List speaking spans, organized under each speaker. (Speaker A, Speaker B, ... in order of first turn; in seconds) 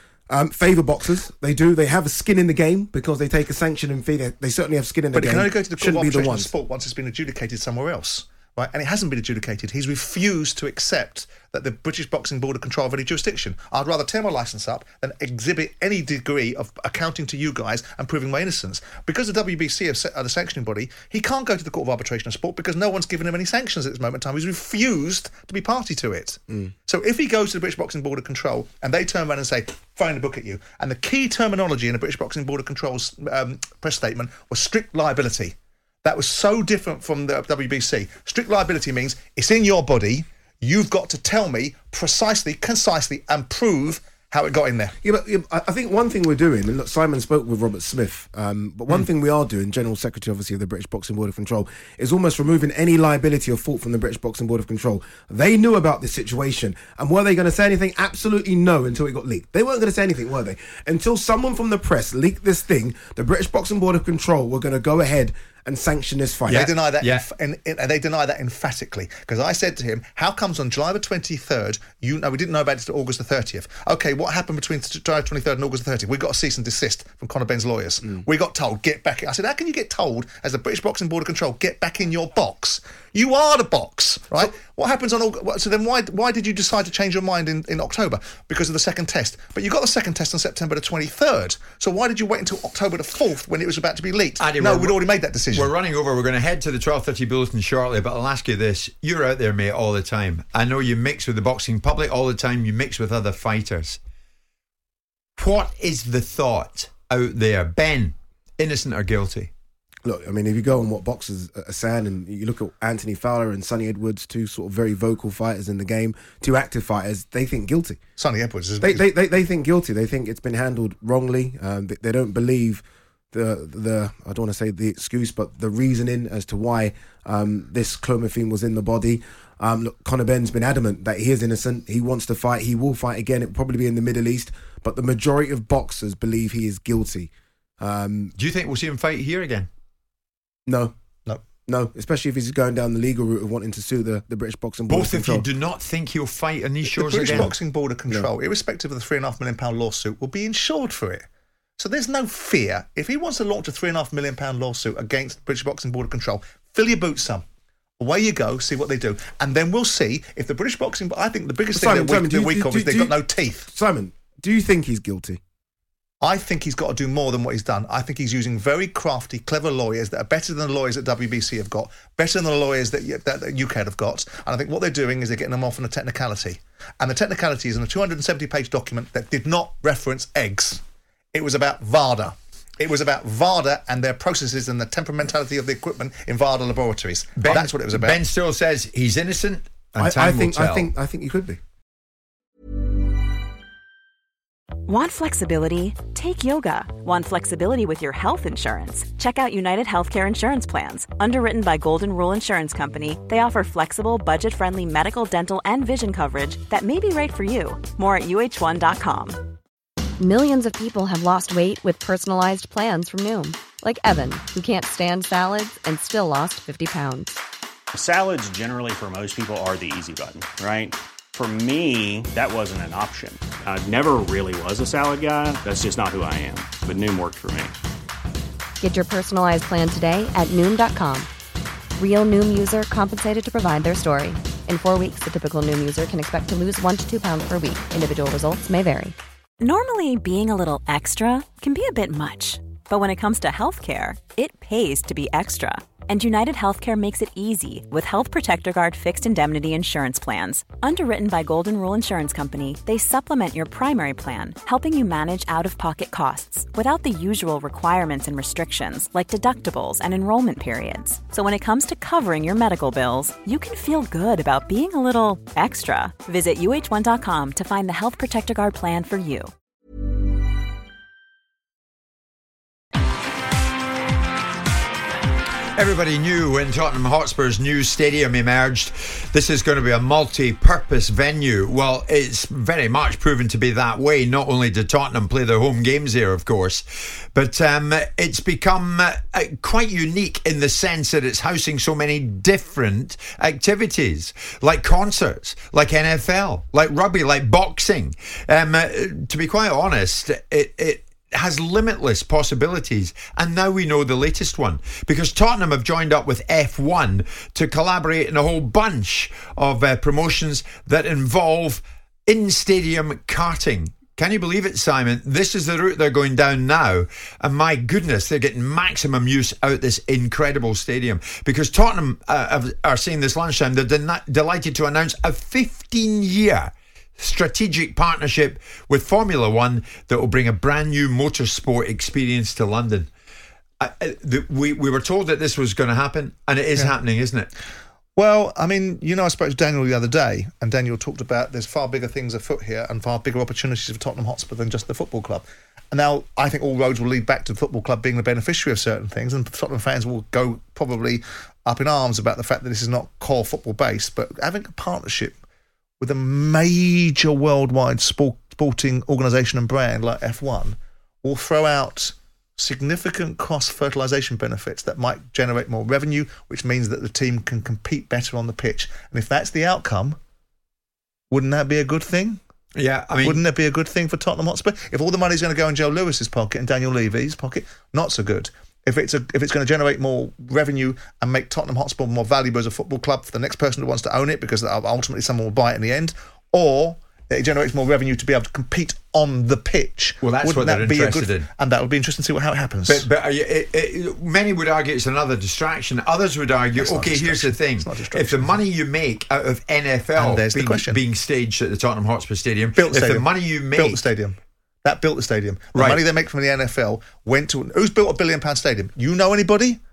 Speaker A: 0.3-6.5, 45.0-66.7, 110.0-118.0, 118.8-138.3, 140.7-140.9, 141.7-145.5, 147.3-147.5, 161.7-165.4, 190.0-191.6
Speaker B: 5.1-45.0, 66.5-95.7, 118.2-119.0, 146.9-151.3, 151.8-157.4, 158.0-163.7, 166.2-180.8, 181.3-188.2, 338.2-355.4, 356.0-370.2, 371.3-372.4, 373.2-393.1, 396.8-398.6, 400.2-401.0, 402.8-409.8
Speaker C: 66.5-67.2, 94.4-95.0, 95.5-104.0, 105.4-109.5, 138.4-139.7, 144.9-147.5, 187.4-190.9, 275.8-333.1, 333.8-337.5, 372.8-373.4, 390.2-391.5, 392.9-404.0, 405.8-406.0
Speaker D: 194.9-209.4, 239.6-269.5
Speaker E: 210.2-217.4, 228.8-231.3, 232.0-239.2
Speaker F: 217.9-227.8